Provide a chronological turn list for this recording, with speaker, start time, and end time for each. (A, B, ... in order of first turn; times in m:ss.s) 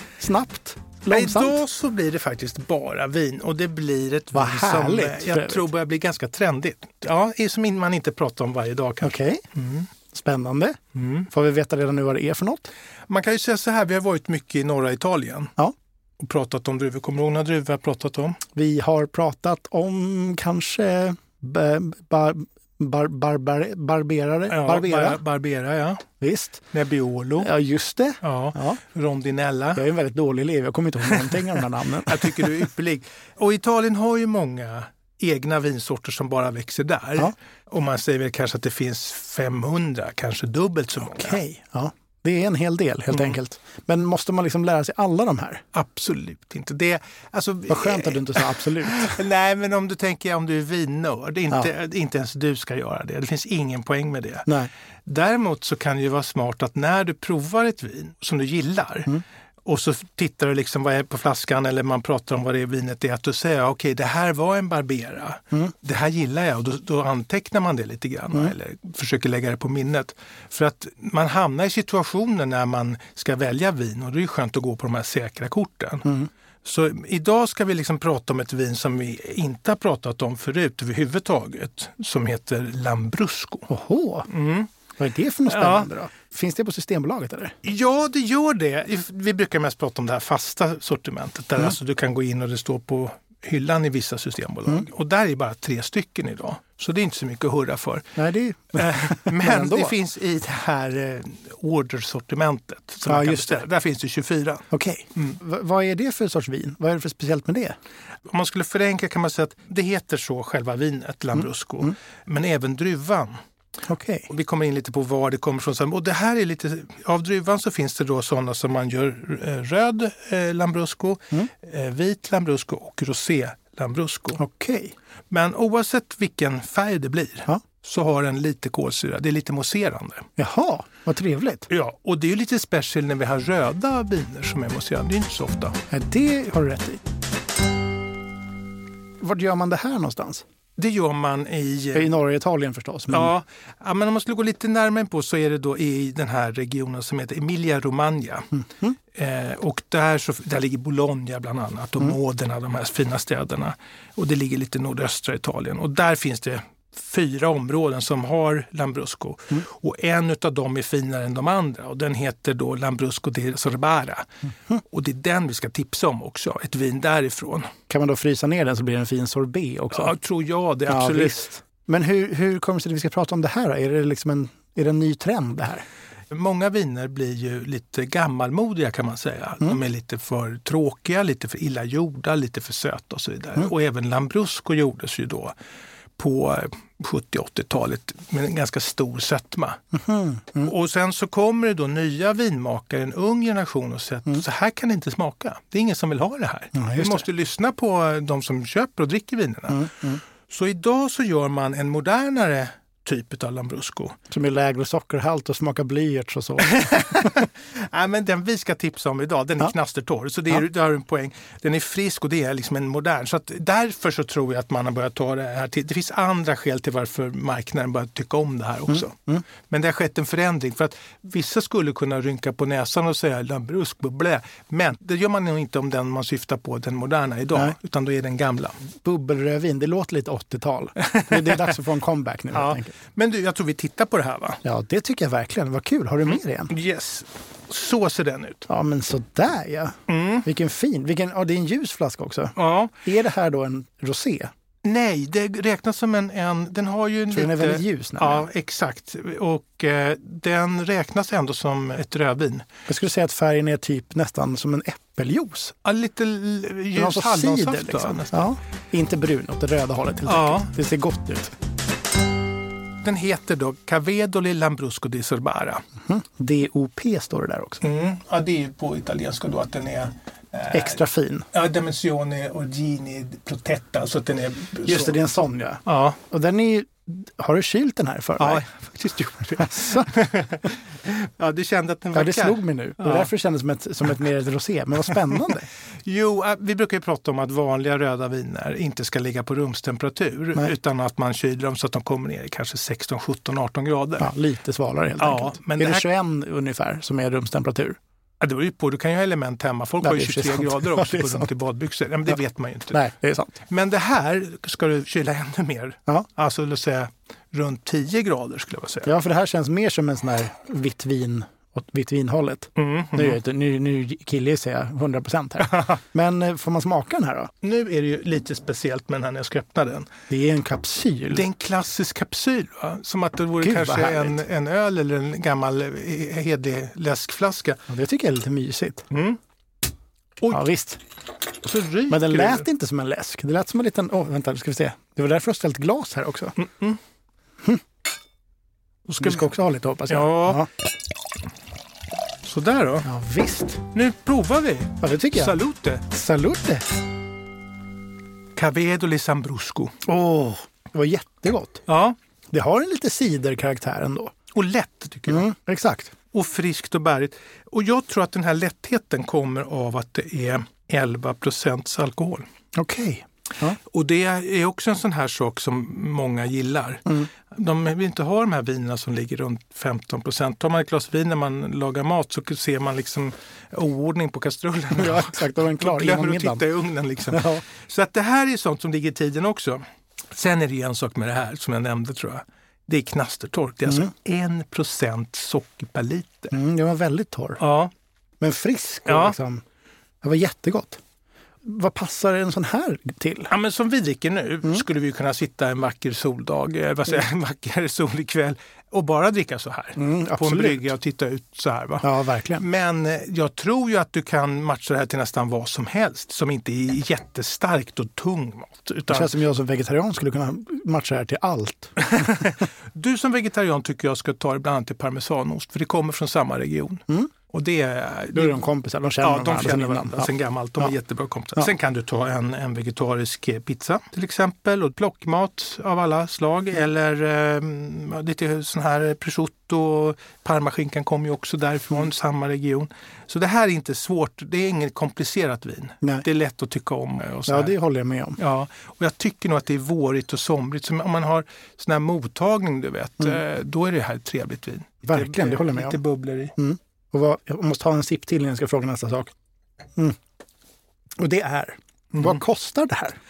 0:00.2-0:01.6 A
0:01.1-0:09.9 B
0:04.3-0:05.6 A
0:09.0-0:09.4 A
0:10.1-0:10.8 A
0:10.9-0:11.3 B
0:11.3-0:12.7 A
0:13.1-0:15.5 B
0:16.2-0:18.4 B
0:18.5-0:25.2 A
0:24.5-0:26.0 B
0:26.2-0:26.7 A
0:26.7-0:27.5 B
0:27.4-0:28.8 A
0:28.2-0:29.8 B
0:29.8-0:32.5 A
0:32.0-0:41.4 B
0:41.1-0:45.6 A
0:45.7-0:54.5 B
0:47.7-0:49.2 A
0:55.0-1:16.1 B
1:16.6-1:23.7 B
1:23.7-1:24.3 A
1:24.3-1:24.7 B
1:25.0-1:27.6 A
1:25.5-1:25.9 B
1:27.6-1:38.1 B
1:38.2-1:40.0 A
1:38.7-1:45.4 B
1:43.0-1:43.6 A
1:44.7-1:47.8 A
1:48.3-1:53.3 B
1:53.9-1:54.3 A
1:54.3-2:04.4 B
2:04.4-2:04.9 A
2:05.3-2:10.2 B
2:10.4-2:11.7 A
2:11.7-2:15.8 B
2:15.9-2:17.0 A
2:19.2-2:20.4 A
2:20.8-2:22.2 B
2:21.9-2:23.3 A
2:23.1-2:28.5 B
2:29.1-2:47.7 B
2:47.9-2:50.1 A
2:49.9-2:51.4 B
2:50.9-2:55.8 A
2:56.3-3:05.5 B
3:06.2-3:09.8 B
3:09.9-3:10.7 A
3:10.6-3:24.2 B
3:16.7-3:17.2 A
3:19.7-3:20.2 A
3:24.3-3:27.4 A
3:26.7-3:48.8 B
3:38.9-3:39.4 A
3:49.0-3:52.9 A
3:51.1-3:51.6 B
3:52.5-3:54.6 B
3:54.6-3:56.7 A
3:56.2-3:58.7 B
3:58.7-4:04.5 A
4:00.1-4:00.5 B
4:02.6-4:02.9 B
4:04.8-4:12.7 B
4:07.3-4:08.5 A
4:12.9-4:15.7 A
4:15.8-4:18.4 B
4:17.0-4:21.5 A
4:20.2-4:20.7 B
4:23.0-4:25.8 B
4:26.0-4:27.8 A
4:27.8-4:31.0 B
4:30.7-4:31.5 A
4:31.5-4:35.2 B
4:34.8-4:38.6 A
4:35.8-4:36.2 B
4:38.4-4:43.3 B
4:39.6-4:40.1 A
4:42.1-4:45.6 A
4:46.0-4:54.3 B
4:54.2-4:58.0 A
4:55.2-4:56.1 B
4:58.4-5:03.0 B
5:00.0-5:01.5 A
5:02.9-5:03.6 A
5:03.6-5:09.1 B
5:09.0-5:17.5 A
5:12.8-5:13.4 B
5:17.6-5:20.1 B
5:20.3-5:21.4 A
5:21.3-5:27.8 B
5:23.6-5:24.4 A
5:27.9-5:29.1 A
5:29.1-5:29.4 B
5:30.5-5:31.0 A
5:31.6-5:32.6 B
5:32.1-5:36.5 A
5:36.6-5:37.0 B
5:39.1-5:39.4 B
5:39.2-5:40.7 A
5:40.1-5:40.6 B
5:42.4-5:43.1 B
5:43.0-5:43.8 A
5:43.9-5:46.0 B
5:45.0-5:45.6 A
5:46.1-5:46.8 A
5:48.6-5:50.0 B
5:50.0-5:51.8 A
5:51.9-5:52.2 B
5:52.5-5:54.3 A
5:54.5-5:55.5 B
5:55.3-5:56.1 A
5:56.3-6:02.4 B
6:02.7-6:03.8 A
6:03.9-6:26.5 B
6:14.9-6:16.6 A
6:17.3-6:17.6 A
6:26.5-6:27.6 A
6:27.6-6:27.9 B
6:28.4-6:29.6 A
6:29.1-6:29.4 B
6:30.2-6:31.0 A
6:31.6-6:33.5 A
6:33.5-6:49.3 B
6:40.0-6:40.9 A
6:42.0-6:42.6 A
6:49.1-6:52.3 A
6:52.0-6:58.6 B
6:58.3-7:00.9 A
6:59.2-7:17.7 B
7:17.5-7:18.4 A
7:18.4-7:26.5 B
7:25.0-7:26.0 A
7:26.6-7:29.3 A
7:31.2-7:33.2 A
7:32.1-7:32.4 B